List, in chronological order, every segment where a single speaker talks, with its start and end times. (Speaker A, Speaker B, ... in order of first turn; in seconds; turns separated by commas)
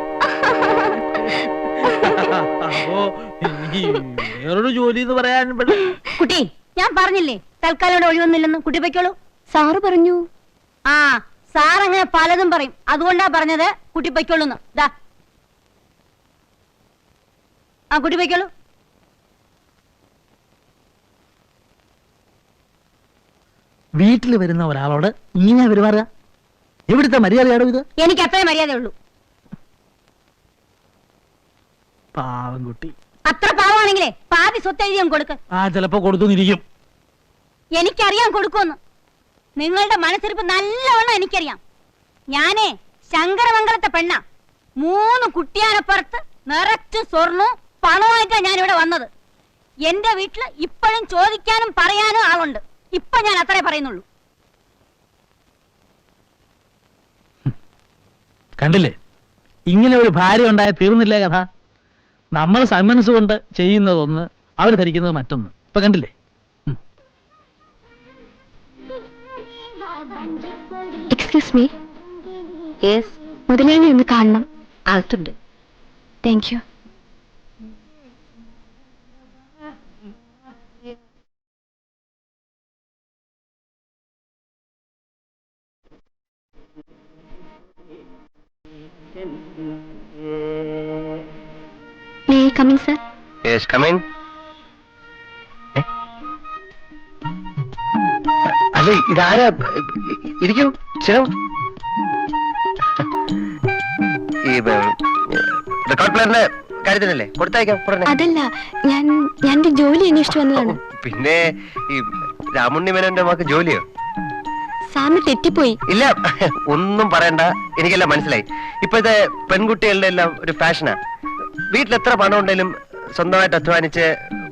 Speaker A: 1.4-6.0, Speaker B: 6.2-9.2, Speaker C: 9.5-10.3, Speaker B: 10.9-14.9, Speaker B: 17.9-18.5, Speaker A: 24.0-26.1, Speaker A: 26.9-27.9, Speaker B: 28.0-28.9, Speaker A: 32.1-32.9, Speaker B: 33.3-35.4, Speaker A: 35.5-36.6, Speaker B: 37.8-38.8, Speaker B: 39.6-41.6, Speaker B: 42.3-44.2, Speaker B: 44.8-49.1, Speaker B: 49.9-54.0, Speaker A: 58.6-59.0, Speaker A: 59.7-61.5, Speaker A: 62.4-66.1, Speaker C: 71.1-71.7, Speaker C: 73.5-74.5, Speaker C: 76.2-76.6, Speaker C: 92.3-93.0, Speaker D: 93.5-94.0, Speaker D: 98.7-99.7, Speaker D: 100.4-101.3, Speaker D: 104.5-108.1, Speaker C: 108.1-110.8, Speaker D: 110.5-113.8, Speaker C: 114.9-115.8, Speaker D: 115.9-121.0, Speaker D: 121.7-124.1